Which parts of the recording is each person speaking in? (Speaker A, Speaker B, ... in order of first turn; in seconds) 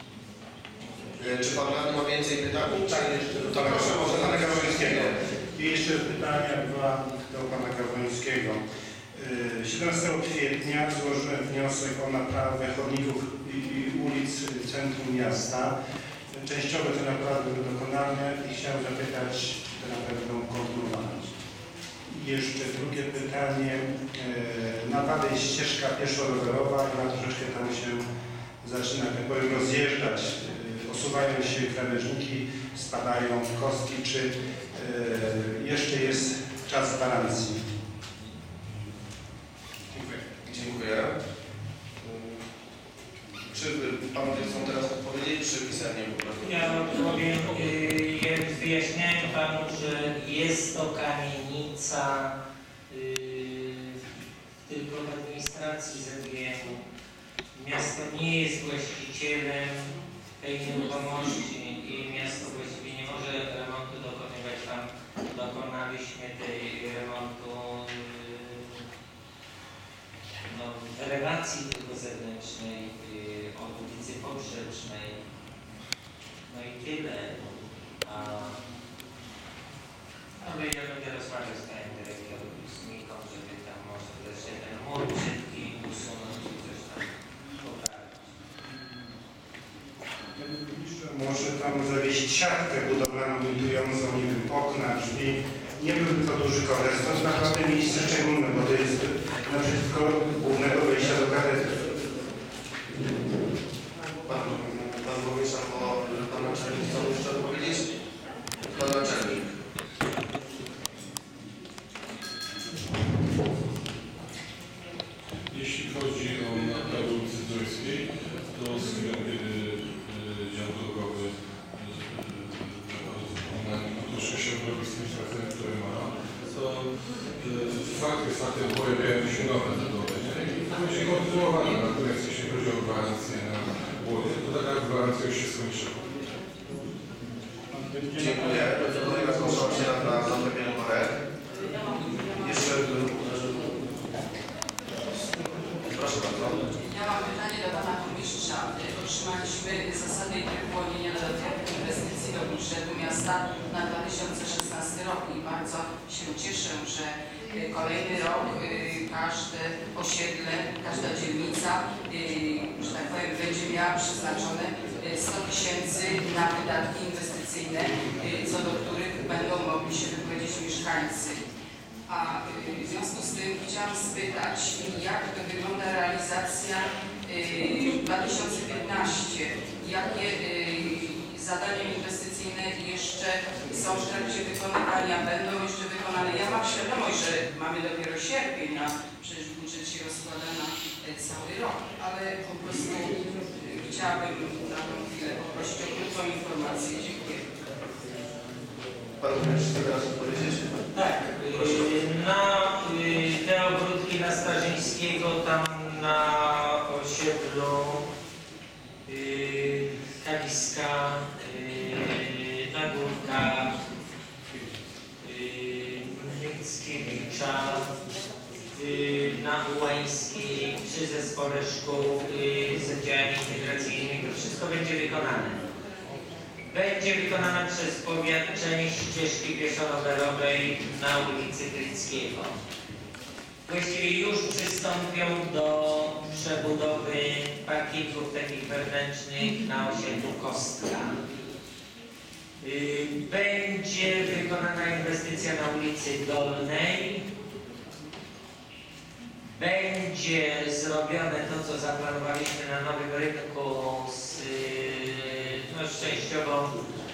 Speaker A: 1.2-5.1, 39.9-41.1, 42.0-42.4, 43.5-46.9, 104.3-107.9, 108.7-109.5, 138.2-141.2, 142.4-143.6, 145.9-146.6, 199.2-200.8, 201.5-201.8
Speaker B: 2.7-8.6, 9.1-15.7, 16.3-21.3, 22.1-28.1, 28.6-37.6, 90.4-101.9
Speaker C: 46.4-52.3, 52.9-54.0, 54.7-56.8, 57.5-68.8, 70.5-75.2, 76.5-77.4, 78.0-78.6, 80.4-87.1, 87.6-88.3, 200.9-208.0, 209.1-213.7, 215.2-217.8, 218.7-225.6, 226.7-232.5, 233.7-241.2, 242.6-247.2, 249.6-256.7
Speaker D: 115.5-136.0
Speaker E: 146.9-171.4, 172.1-197.6